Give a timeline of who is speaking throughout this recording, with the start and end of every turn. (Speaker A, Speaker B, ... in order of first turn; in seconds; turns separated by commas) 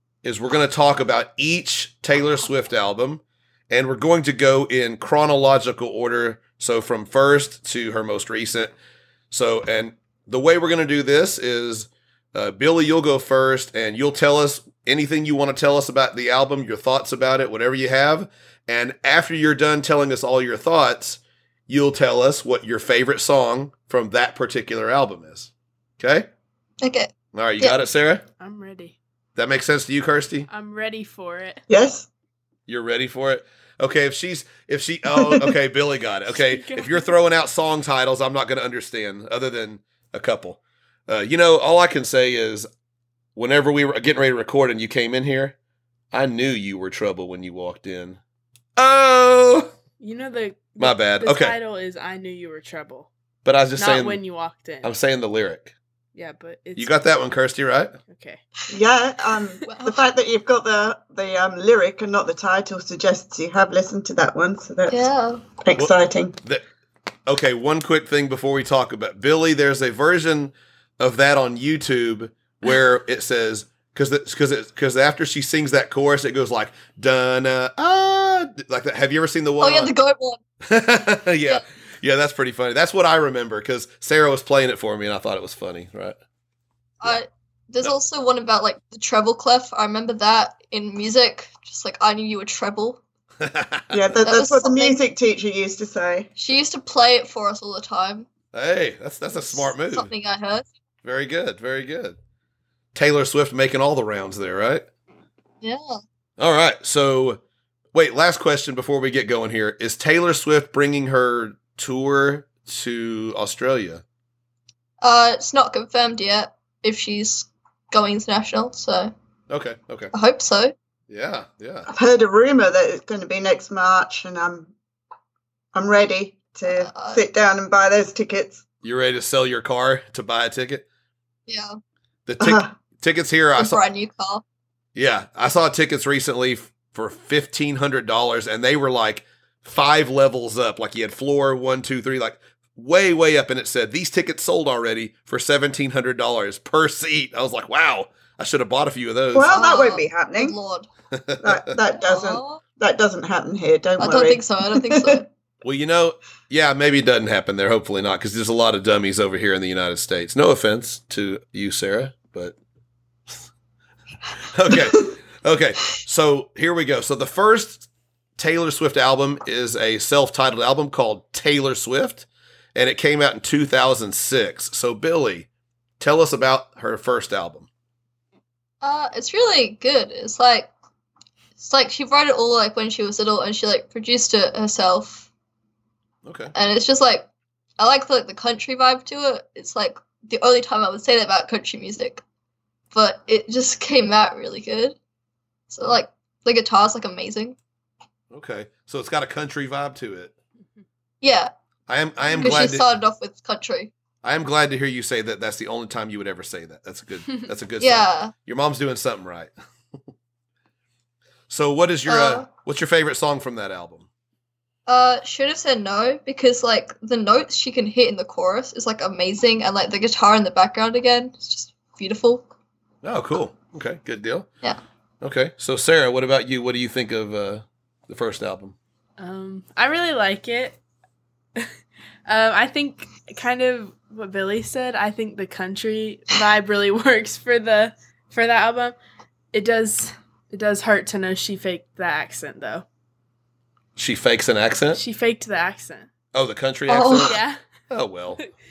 Speaker A: 0.2-8.7, Speaker A: 9.3-26.3, Speaker B: 26.8-27.8, Speaker A: 27.3-28.2, Speaker C: 28.4-29.0, Speaker A: 29.4-30.5, Speaker C: 30.5-31.6, Speaker D: 31.7-32.1, Speaker A: 32.7-42.7, Speaker D: 35.1-35.5, Speaker C: 36.4-37.1, Speaker A: 43.4-45.5, Speaker A: 46.1-48.2, Speaker A: 48.8-49.7, Speaker C: 50.0-53.1, Speaker A: 50.8-51.6, Speaker A: 53.5-54.2, Speaker C: 53.8-54.9, Speaker A: 54.8-55.7, Speaker C: 56.1-57.0, Speaker A: 56.8-58.0, Speaker C: 58.1-58.4, Speaker D: 58.7-65.1, Speaker B: 59.6-60.0, Speaker B: 64.9-65.4, Speaker D: 65.6-66.4, Speaker A: 65.8-66.7, Speaker A: 67.3-79.9, Speaker B: 79.6-80.4, Speaker A: 80.6-86.2, Speaker B: 87.0-93.0, Speaker A: 93.4-94.2, Speaker D: 93.9-96.3, Speaker B: 94.2-95.0, Speaker B: 96.4-98.3, Speaker A: 98.5-100.1, Speaker B: 99.3-100.7, Speaker A: 101.0-102.2, Speaker A: 102.9-104.9, Speaker B: 105.6-106.0, Speaker A: 106.4-107.4, Speaker A: 107.9-114.0, Speaker B: 115.0-119.1, Speaker A: 119.5-120.1, Speaker B: 120.1-120.7, Speaker A: 121.1-121.9, Speaker D: 121.9-124.7, Speaker D: 125.7-128.6, Speaker B: 126.7-127.2, Speaker A: 128.8-130.8, Speaker B: 131.5-131.8, Speaker A: 132.3-133.8, Speaker D: 132.4-132.7, Speaker B: 133.6-134.4, Speaker A: 134.9-149.6, Speaker D: 149.3-150.6, Speaker B: 149.5-150.9, Speaker A: 151.1-151.7, Speaker D: 151.4-155.2, Speaker B: 152.0-152.6, Speaker B: 154.0-155.3, Speaker A: 155.6-162.6, Speaker A: 164.5-175.5, Speaker A: 176.0-177.7, Speaker B: 178.8-180.7, Speaker B: 181.6-185.3, Speaker A: 186.2-186.5, Speaker B: 186.5-187.3, Speaker B: 187.8-192.2, Speaker B: 192.9-195.0, Speaker B: 195.7-197.6, Speaker A: 198.3-200.3, Speaker B: 201.2-201.5, Speaker A: 201.9-202.8, Speaker C: 202.3-202.6, Speaker B: 202.4-203.9, Speaker A: 204.2-209.5, Speaker B: 207.8-208.3, Speaker A: 211.5-214.1, Speaker B: 212.1-212.5, Speaker B: 214.9-222.5, Speaker A: 223.0-224.5, Speaker A: 225.2-228.8, Speaker C: 229.2-230.8, Speaker C: 232.3-239.0, Speaker C: 239.5-242.8, Speaker A: 244.0-245.0, Speaker C: 244.9-246.1, Speaker A: 246.3-247.4, Speaker B: 246.9-247.3, Speaker C: 247.2-247.6, Speaker A: 247.9-248.4